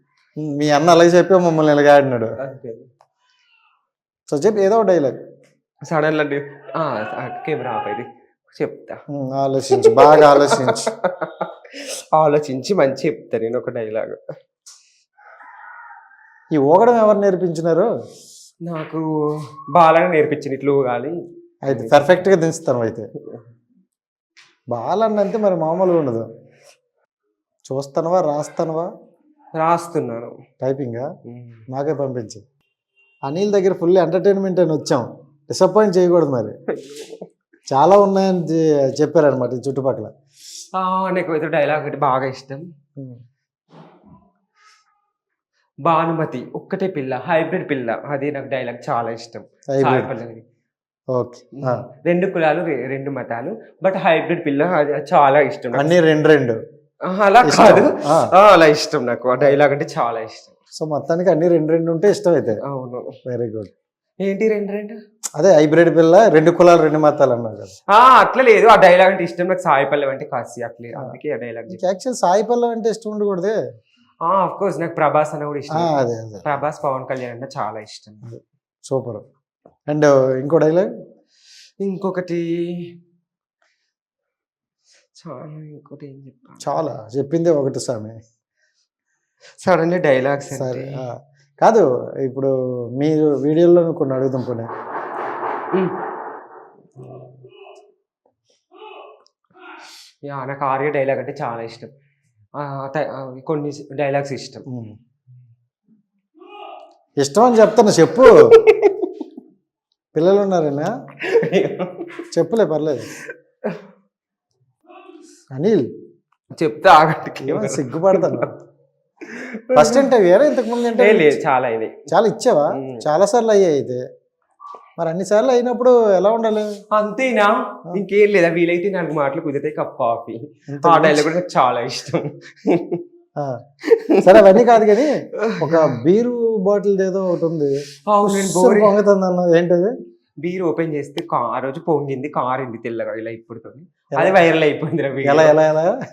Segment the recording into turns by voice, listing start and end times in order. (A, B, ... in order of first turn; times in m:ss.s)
0:00.4-0:02.3 A
0:02.4-0:02.9 B
0:04.3-0:05.2 A
0:05.8-0:09.0 B
0:09.1-0:10.8 A
0:09.7-0:14.2 B
0:16.5-0:17.9 A
0:18.6-0:19.0 B
0:19.7-0:21.2 B
0:21.7-0:23.1 A
0:21.7-0:22.2 B
0:24.7-0:26.3 A
0:27.7-0:28.9 A
0:29.6-0:30.3 B
0:30.6-0:31.1 A
0:31.3-0:31.6 B
0:31.7-0:32.4 A
0:33.3-0:36.5 A
0:36.7-0:37.3 B
0:37.7-0:40.1 A
0:40.7-0:42.6 B
0:45.8-0:50.4 B
0:49.7-0:50.1 A
0:51.1-0:51.8 A
0:51.6-0:55.9 B
0:55.7-0:56.6 A
0:57.1-1:00.6 B
0:57.4-0:58.3 A
1:00.8-1:02.6 A
1:02.6-1:03.1 B
1:03.3-1:03.7 A
1:04.2-1:05.0 B
1:05.4-1:07.7 A
1:07.9-1:11.8 B
1:11.7-1:13.6 A
1:14.2-1:18.2 B
1:15.7-1:16.6 A
1:18.3-1:19.2 A
1:19.9-1:20.9 A
1:21.8-1:23.0 B
1:25.2-1:26.7 B
1:26.6-1:28.2 A
1:29.6-1:31.0 B
1:30.5-1:34.7 A
1:35.7-1:36.0 B
1:37.0-1:37.3 B
1:40.2-1:41.9 B
1:42.6-1:44.6 B
1:44.7-1:45.0 A
1:47.2-1:48.4 A
1:48.2-1:49.1 B
1:50.2-1:50.9 A
1:51.2-1:52.2 B
1:52.3-1:53.1 A
1:55.5-1:55.9 A
1:56.5-1:58.5 B
1:57.4-1:58.5 A
1:59.2-2:00.1 B
1:59.8-2:01.4 A
2:00.7-2:02.0 B
2:02.1-2:04.0 A
2:02.7-2:03.1 B
2:05.0-2:06.7 A
2:06.9-2:13.0 B
2:10.7-2:11.3 A
2:13.8-2:16.0 B
2:14.2-2:17.7 A
2:18.0-2:19.0 B
2:18.2-2:19.9 A
2:20.4-2:25.6 B
2:24.1-2:24.4 A
2:25.2-2:25.9 A